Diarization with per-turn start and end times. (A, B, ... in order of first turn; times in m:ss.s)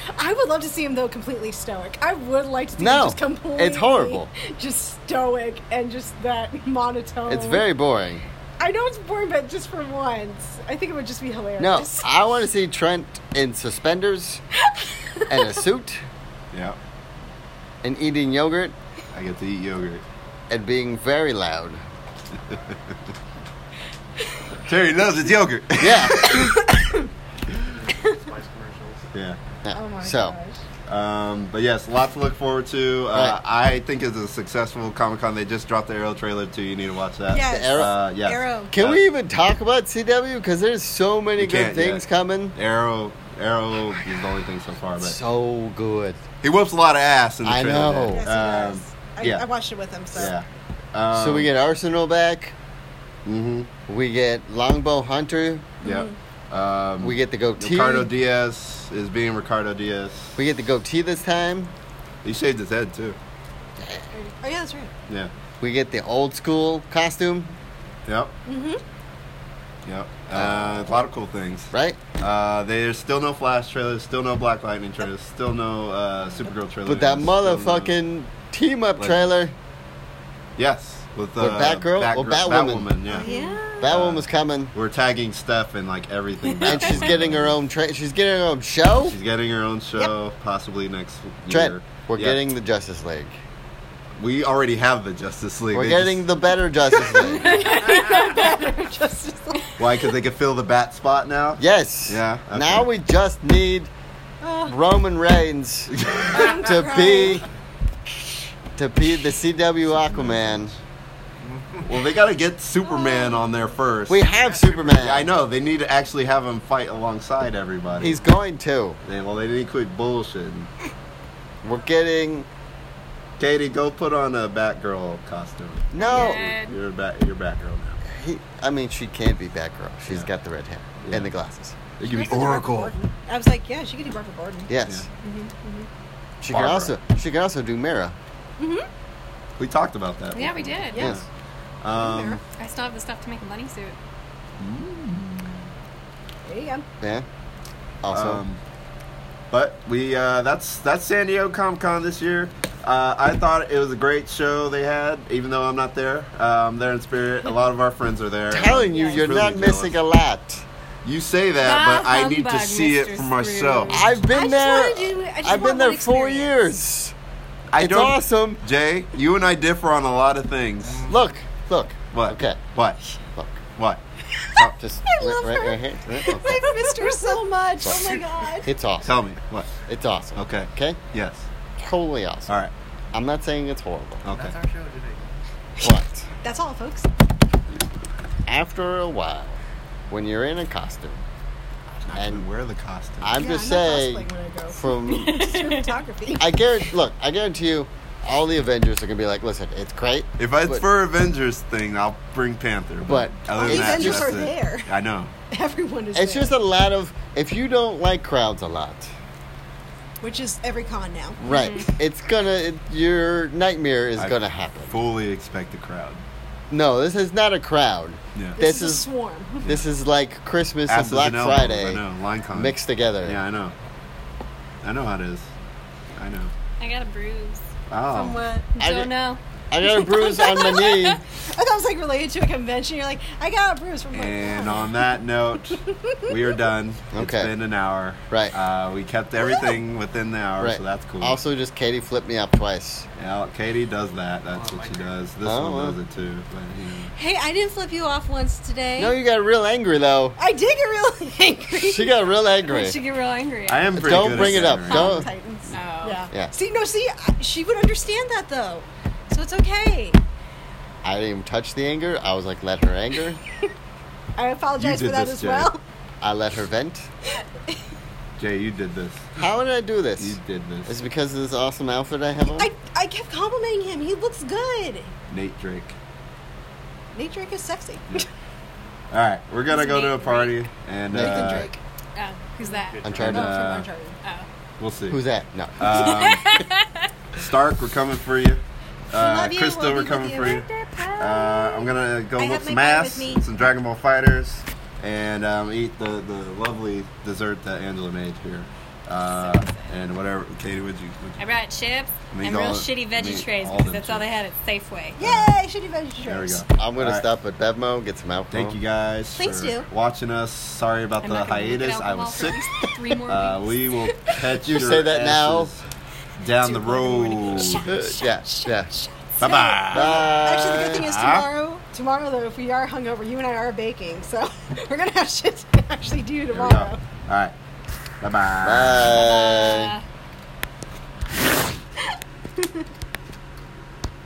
0:00.1-0:07.7 A
0:02.8-0:04.3 B
0:07.3-0:08.2 B
0:08.6-0:12.1 A
0:11.6-0:14.4 B
0:14.6-0:15.6 A
0:15.3-0:16.0 B
0:16.5-0:16.8 C
0:17.8-0:18.7 B
0:19.1-0:20.0 C
0:20.5-0:21.8 B
0:24.7-0:26.7 C
0:25.8-0:26.6 B
0:26.2-0:27.1 A
0:27.7-0:29.1 D
0:29.1-0:29.4 C
0:29.6-0:30.4 B
0:29.7-0:30.6 A
0:30.9-0:39.0 C
0:33.1-0:33.4 B
0:37.3-0:38.8 A
0:37.4-0:38.0 B
0:38.7-0:42.6 B
0:41.4-0:45.2 C
0:45.0-0:46.2 B
0:46.4-0:49.4 C
0:47.4-0:48.2 B
0:48.1-0:50.3 A
0:50.1-0:51.5 C
0:51.1-0:52.5 B
0:53.2-0:53.7 C
0:53.9-0:55.8 B
0:55.8-0:56.1 A
0:55.8-1:00.4 C
0:57.0-0:58.1 B
1:00.4-1:01.7 B
1:02.2-1:03.2 C
1:03.8-1:04.1 B
1:04.1-1:04.9 A
1:05.6-1:07.5 B
1:08.1-1:08.3 C
1:08.5-1:08.8 A
1:09.8-1:18.0 C
1:10.3-1:11.0 B
1:11.7-1:12.0 B
1:16.8-1:19.6 B
1:19.0-1:19.3 C
1:20.6-1:27.6 C
1:21.4-1:24.7 B
1:23.1-1:23.9 A
1:26.6-1:29.2 B
1:29.1-1:32.4 C
1:31.5-1:33.4 B
1:34.2-1:36.2 C
1:35.7-1:37.7 B
1:37.1-1:39.7 A
1:39.8-1:42.9 C
1:41.6-1:43.9 B
1:44.4-1:44.8 A
1:44.7-1:47.4 B
1:45.9-1:46.4 C
1:46.3-1:47.4 A
1:48.8-1:50.7 B
1:49.8-1:50.8 C
1:51.5-1:51.9 D
1:51.8-1:54.2 C
1:53.0-1:53.3 A
1:54.1-1:55.3 B
1:54.2-1:55.1 D
1:54.9-1:58.2 C
1:58.0-1:59.0 B
1:59.0-2:00.7 C
2:01.6-2:02.5 B
2:03.4-2:08.0 C
2:05.9-2:06.5 B
2:06.0-2:06.8 E
2:08.1-2:11.8 B
2:11.0-2:11.3 C
2:12.0-2:12.9 C
2:12.0-2:15.9 A
2:14.7-2:15.1 B
2:16.4-2:18.2 B
2:16.5-2:17.0 C
2:18.6-2:18.9 A
2:19.6-2:21.2 C
2:20.3-2:21.1 E
2:20.9-2:21.2 A
2:21.0-2:21.2 B
2:21.8-2:22.4 C
2:22.0-2:22.4 A
2:22.6-2:24.0 E
2:24.6-2:25.6 C
2:26.5-2:26.8 A
2:27.0-2:27.3 B
2:28.0-2:28.4 B
2:28.1-2:28.6 C
2:29.5-2:40.0 C
2:38.5-2:40.6 B
2:38.6-2:39.2 A
2:41.0-2:44.1 C
2:41.6-2:44.1 E
2:43.9-2:47.2 B
2:44.3-2:46.6 A
2:47.7-2:51.1 C
2:47.8-2:48.6 B
2:50.8-2:51.3 D
2:51.1-2:52.6 B
2:52.1-2:53.0 C
2:53.4-2:53.6 B
2:53.8-2:54.0 C
2:54.3-2:58.7 A
2:54.8-2:56.7 B
2:58.6-2:59.1 B
2:59.0-2:59.7 C
2:59.9-3:01.0 B
3:00.4-3:01.4 C
3:01.8-3:02.6 B
3:02.5-3:02.7 C
3:03.1-3:04.2 B
3:04.2-3:04.6 C
3:04.3-3:05.3 D
3:05.8-3:06.2 B
3:06.4-3:07.1 A
3:08.5-3:09.6 B
3:10.1-3:11.2 B
3:12.1-3:13.4 C
3:12.2-3:12.4 B
3:13.2-3:15.5 B
3:13.4-3:16.5 A
3:15.1-3:16.0 E
3:16.4-3:20.8 B
3:20.4-3:25.3 C
3:23.1-3:24.5 B
3:23.5-3:24.9 A
3:25.5-3:26.6 A
3:26.1-3:29.1 B
3:30.2-3:31.4 A
3:31.4-3:34.9 B
3:31.4-3:31.9 E
3:34.2-3:36.2 C
3:36.7-3:39.1 B
3:38.6-3:39.7 A
3:39.6-3:42.0 B
3:40.9-3:43.7 C
3:42.5-3:43.4 B
3:44.8-3:45.5 C
3:46.2-3:46.5 C
3:46.8-3:47.6 E
3:47.9-3:48.4 C
3:48.1-3:48.7 A
3:48.8-3:49.4 E
3:48.8-3:49.1 B
3:49.7-3:51.2 B
3:49.9-3:55.0 A
3:50.0-3:51.2 E
3:54.1-4:01.4 C
3:55.7-3:56.6 A
3:57.1-3:57.5 B
3:59.4-3:59.8 A
4:00.6-4:03.1 B
4:03.2-4:07.1 C
4:04.5-4:05.3 D
4:05.4-4:06.0 B
4:07.2-4:09.2 A
4:09.0-4:10.4 B
4:10.4-4:12.2 A
4:11.7-4:13.0 B
4:12.6-4:16.2 E
4:13.7-4:15.3 C
4:13.9-4:15.3 B
4:14.9-4:20.2 A
4:21.0-4:23.4 B
4:24.4-4:25.8 A
4:24.8-4:25.7 C
4:26.2-4:27.1 B
4:28.4-4:29.4 C
4:29.4-4:32.7 B
4:30.2-4:31.0 C
4:32.4-4:35.1 A
4:35.3-4:36.0 C
4:37.1-4:38.3 A
4:39.1-4:41.7 C
4:39.7-4:40.7 E
4:41.1-4:41.7 B
4:41.2-4:41.8 A
4:42.2-4:43.1 E
4:42.6-4:43.4 D
4:43.0-4:43.8 B
4:43.1-4:43.9 C
4:43.2-4:44.2 A
4:44.8-4:45.2 C
4:45.1-4:46.2 B
4:45.8-4:46.6 C
4:45.9-4:47.1 E
4:47.4-4:50.7 C
4:49.1-4:51.8 A
4:50.5-4:50.7 E
4:51.2-5:01.4 C
4:52.4-4:53.5 A
4:59.2-5:00.0 E
5:01.4-5:05.2 E
5:02.3-5:04.3 C
5:05.2-5:06.6 A
5:05.2-5:05.5 C
5:06.2-5:07.3 C
5:06.8-5:08.8 B
5:08.5-5:12.6 C
5:09.3-5:09.9 A
5:11.2-5:13.8 E
5:13.2-5:15.8 C
5:14.6-5:15.7 B
5:16.4-5:17.9 C
5:16.5-5:27.0 A
5:17.9-5:18.9 B
5:19.4-5:21.5 C
5:19.9-5:21.1 B
5:26.5-5:27.5 C
5:28.2-5:29.4 C
5:28.6-5:30.0 B
5:29.2-5:30.0 E
5:32.6-5:32.9 A